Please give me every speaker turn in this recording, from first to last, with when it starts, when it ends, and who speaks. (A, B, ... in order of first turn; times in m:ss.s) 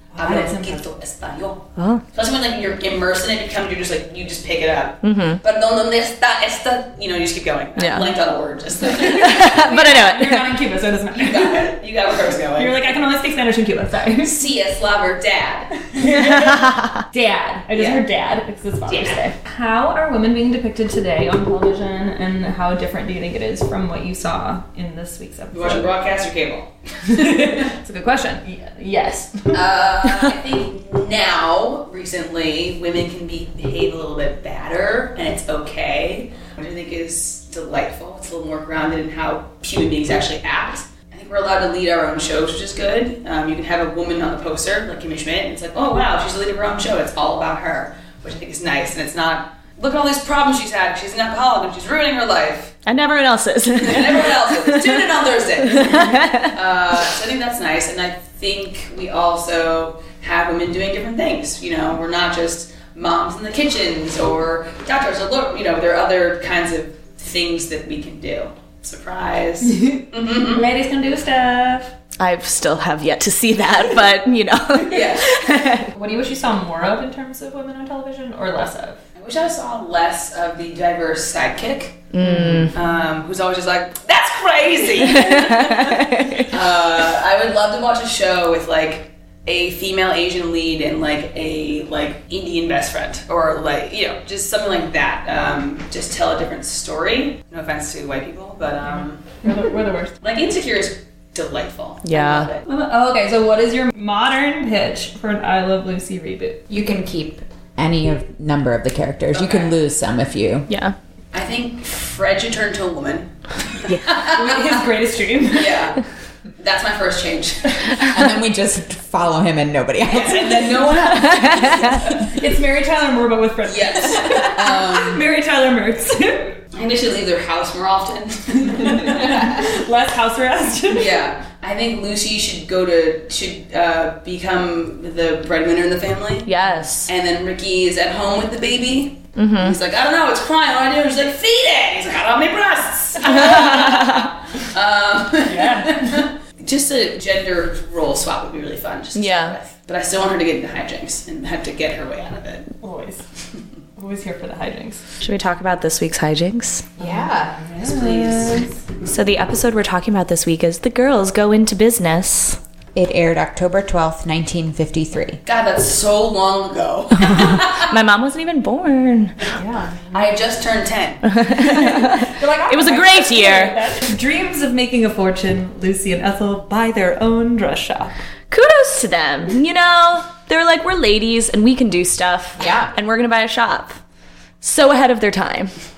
0:00.1-0:00.9 A
0:00.2-0:09.7 B
0:01.8-0:02.0 C
0:05.0-0:05.4 C
0:07.8-0:08.1 C
0:08.9-0:10.6 C
0:08.9-0:11.8 A
0:11.1-0:13.0 B
0:12.6-0:14.4 A
0:14.2-0:16.1 B
0:15.9-0:25.9 A
0:16.4-0:17.0 C
0:17.7-0:18.0 B
0:18.9-0:19.2 B
0:25.5-0:27.7 B
0:27.1-0:29.7 A
0:29.5-0:52.8 B
0:52.9-0:55.0 C
0:53.7-1:10.7 B
0:55.6-0:56.5 C
1:09.6-1:11.9 A
1:12.2-1:15.9 C
1:14.9-1:15.5 B
1:15.9-1:19.0 A
1:19.2-1:39.4 B
1:22.1-1:22.8 C
1:25.2-1:26.5 C
1:39.4-1:40.2 A
1:40.2-1:42.8 B
1:42.0-1:42.5 C
1:42.7-1:46.6 A
1:46.7-1:50.7 D
1:49.3-1:49.7 B
1:50.7-1:51.0 C
1:51.3-1:54.8 B
1:54.2-1:55.9 A
1:55.5-1:56.0 B
1:56.6-1:58.1 B
1:58.0-2:01.0 D
2:00.1-2:02.3 B
2:01.3-2:01.8 C
2:02.2-2:06.6 A
2:03.6-2:05.2 B
2:06.7-2:09.6 B
2:09.0-2:11.2 A
2:10.9-2:16.5 B
2:16.5-2:17.1 C
2:17.0-2:32.7 B
2:19.4-2:19.8 C
2:23.2-2:24.3 C
2:25.4-2:26.2 A
2:29.1-2:29.6 C
2:32.8-2:33.2 A
2:34.0-2:35.0 A
2:35.2-2:36.9 C
2:37.0-2:37.6 D
2:37.0-2:38.7 A
2:37.8-2:38.7 B
2:39.0-2:42.6 C
2:43.0-2:45.4 D
2:45.4-2:47.9 B
2:47.2-2:49.4 C
2:49.5-2:50.2 A
2:50.1-2:51.4 B
2:51.3-2:53.8 C
2:52.1-2:58.1 A
2:58.5-3:04.0 C
3:02.6-3:02.9 D
3:04.6-3:05.7 C